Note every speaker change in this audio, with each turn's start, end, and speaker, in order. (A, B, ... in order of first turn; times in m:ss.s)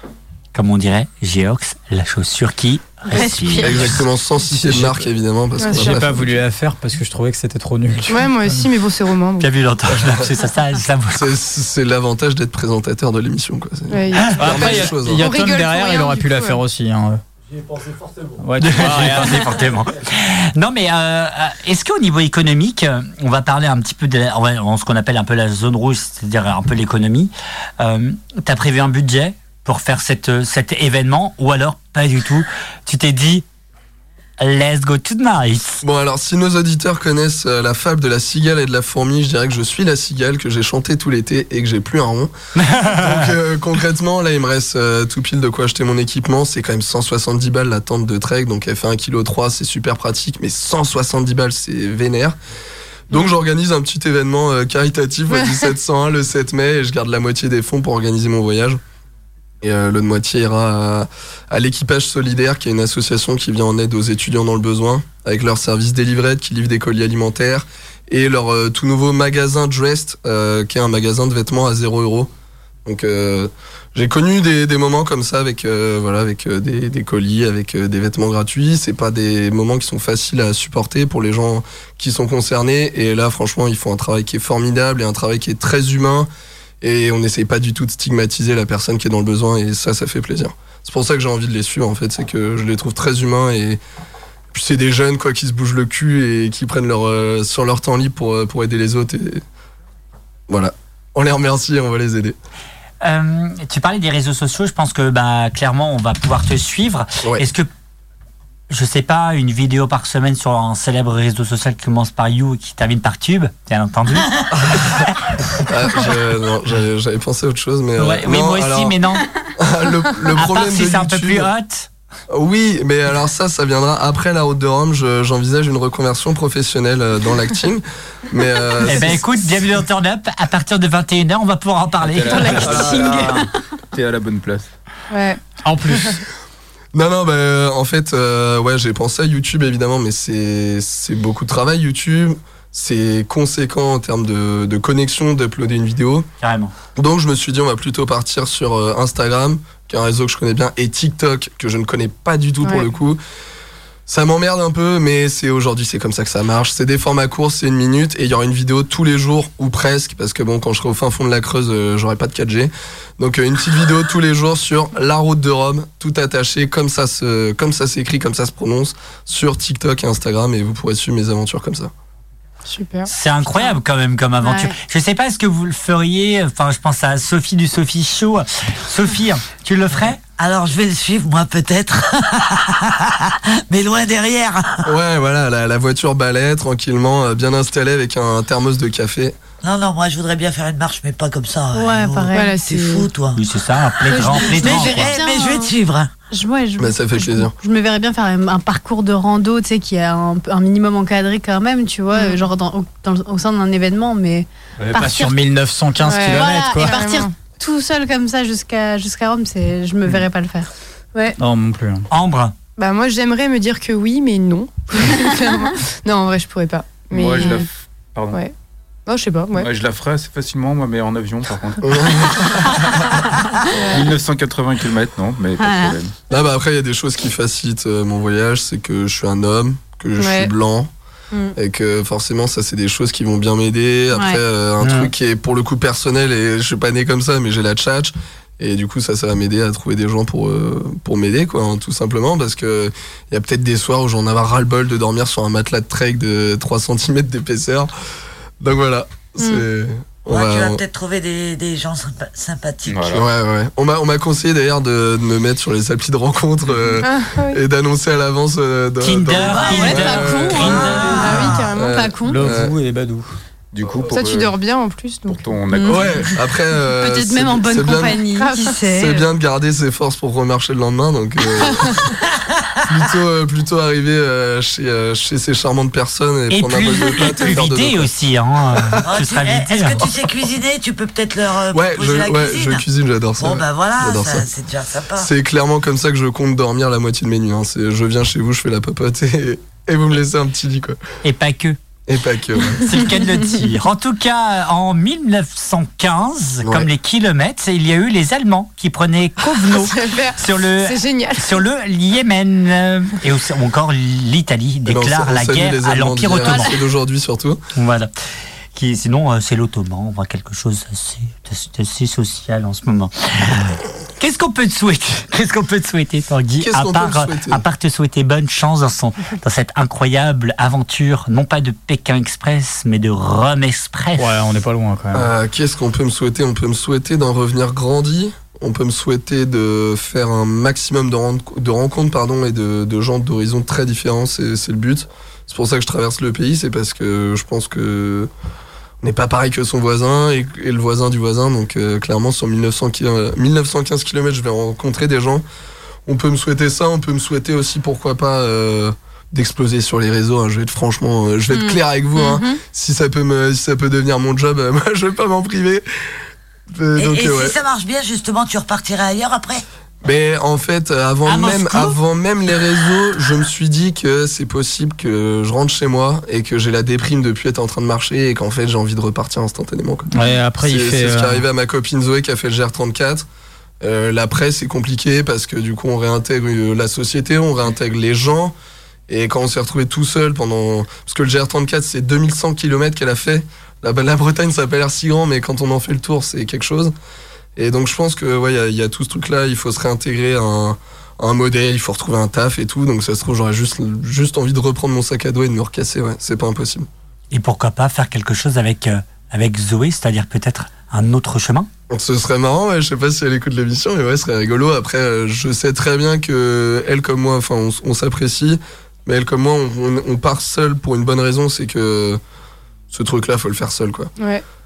0:00.5-0:04.0 A
0:03.1-0:04.0 B
0:03.6-0:06.3 C
0:04.5-0:05.0 D
0:05.6-0:06.0 E
0:05.7-0:08.6 D
0:08.1-0:09.5 E
0:09.4-0:11.3 A
0:09.9-0:10.2 C
0:11.1-0:15.3 C
0:13.9-0:16.6 E
0:14.3-0:17.2 D
0:18.4-0:19.6 D
0:18.6-0:33.4 A
0:34.4-0:35.8 A
0:35.8-0:42.3 C
0:42.6-0:43.2 A
0:42.8-0:52.4 C
0:53.1-0:58.8 C
0:55.3-0:55.7 E
0:59.6-1:12.3 C
1:12.8-1:26.3 C
1:26.8-1:33.8 C
1:34.5-1:39.4 C
1:40.5-1:42.4 C
1:43.0-1:47.7 A
1:48.7-1:54.3 A
1:54.6-1:54.9 C
1:55.6-1:59.0 C
1:58.0-1:59.3 A
1:59.6-2:01.5 C
2:00.3-2:01.9 A
2:02.3-2:09.3 C
2:08.8-2:13.0 A
2:12.0-2:14.7 F
2:12.2-2:13.5 B
2:15.1-2:15.4 E
2:15.6-2:16.2 D
2:16.9-2:26.3 C
2:26.4-2:26.7 A
2:27.0-2:33.2 C
2:34.1-2:51.9 C
2:52.6-2:53.1 E
2:53.1-3:00.2 A
2:54.4-2:54.8 B
3:00.4-3:04.9 G
3:04.8-3:09.4 C
3:09.6-3:13.4 G
3:11.7-3:12.6 B
3:12.3-3:13.1 E
3:13.3-3:15.1 A
3:14.0-3:15.7 B
3:14.2-3:16.1 G
3:16.3-3:25.4 B
3:16.8-3:17.5 C
3:22.1-3:22.4 E
3:24.9-3:27.0 D
3:26.0-3:27.3 E
3:26.1-3:31.4 B
3:31.4-3:32.1 D
3:32.1-3:32.5 A
3:32.8-3:37.6 E
3:37.1-3:38.4 F
3:39.0-3:39.7 E
3:39.5-3:42.8 F
3:41.8-3:42.7 C
3:43.7-3:44.0 E
3:43.9-3:46.1 F
3:45.6-3:46.0 B
3:46.3-3:50.9 C
3:50.2-3:50.5 E
3:51.5-4:07.9 C
3:54.1-3:54.4 B
3:54.8-3:55.1 A
4:08.6-4:10.8 C
4:10.3-4:13.2 G
4:12.9-4:13.2 F
4:13.1-4:21.1 C
4:17.0-4:17.6 E
4:19.0-4:21.5 A
4:19.4-4:21.6 G
4:19.6-4:22.5 B
4:21.1-4:22.0 E
4:21.7-4:22.7 C
4:22.2-4:23.3 D
4:23.7-4:24.6 F
4:24.1-4:25.4 E
4:25.3-4:26.3 F
4:25.7-4:26.2 B
4:25.8-4:28.2 C
4:26.9-4:29.3 B
4:28.3-4:28.7 E
4:28.9-4:32.1 C
4:32.9-4:38.1 C
4:36.5-4:40.0 A
4:39.0-4:42.8 G
4:41.7-4:44.5 C
4:43.4-4:45.3 G
4:45.2-4:51.0 C
4:51.2-4:51.8 A
4:52.1-4:53.0 C
4:52.8-5:06.7 A
4:56.6-4:56.9 C
4:59.8-5:01.5 E
5:04.8-5:07.6 C
5:07.7-5:08.1 A
5:08.7-5:24.3 A
5:16.6-5:17.6 C
5:24.2-5:25.3 D
5:25.1-5:38.3 C
5:39.0-5:45.4 C
5:46.0-5:55.8 C
5:51.5-5:52.6 B
5:56.7-5:57.5 C
5:57.0-5:59.6 G
6:00.0-6:10.1 C
6:01.2-6:02.0 A
6:10.1-6:11.4 D
6:10.6-6:13.2 C
6:13.8-6:18.5 C
6:19.1-6:26.9 C
6:27.6-6:36.9 C
6:37.3-6:41.7 A
6:41.9-6:52.2 C
6:52.9-6:54.1 C
6:54.2-6:54.4 E